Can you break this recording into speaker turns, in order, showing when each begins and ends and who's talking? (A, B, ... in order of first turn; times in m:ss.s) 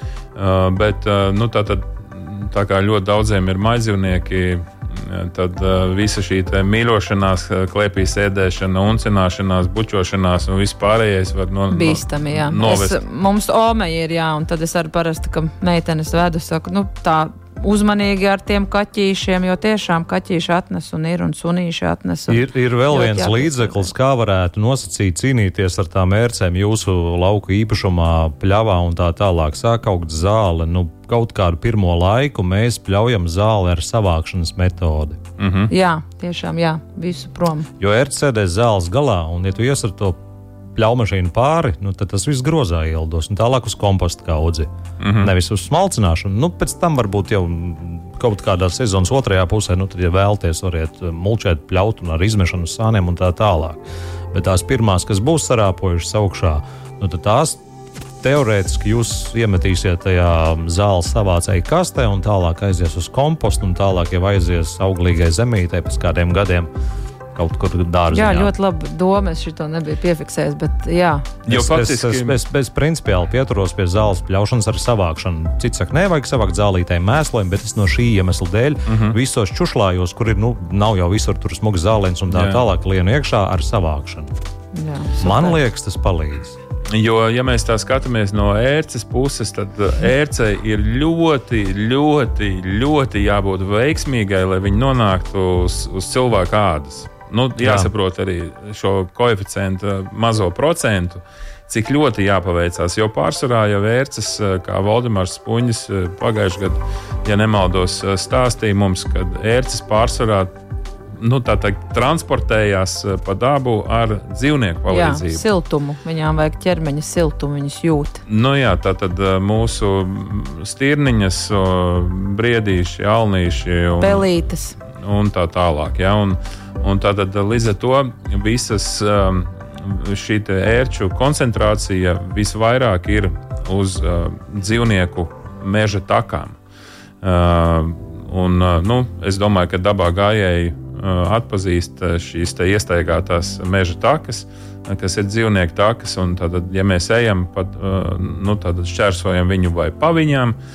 0:00.4-0:13.0 A
0:11.7-0:23.9 B
0:22.3-0:35.2 C
0:35.4-0:35.7 A
0:35.7-0:37.7 B
0:37.8-0:40.2 C
0:40.7-0:53.8 C
0:45.0-0:45.3 A
0:54.3-0:57.6 C
0:58.2-1:06.7 C
1:07.3-1:08.5 C
1:08.1-1:11.3 B
1:11.5-1:12.4 A
1:11.5-1:24.3 C
1:18.9-1:19.2 A
1:22.3-1:22.6 A
1:24.7-1:25.6 B
1:25.2-1:26.6 C
1:26.9-1:50.5 A
1:37.6-1:37.9 C
1:51.2-1:55.5 A
1:54.9-1:58.2 B
1:58.3-2:04.3 A
2:04.0-2:04.8 B
2:05.0-2:16.6 A
2:17.2-2:30.6 A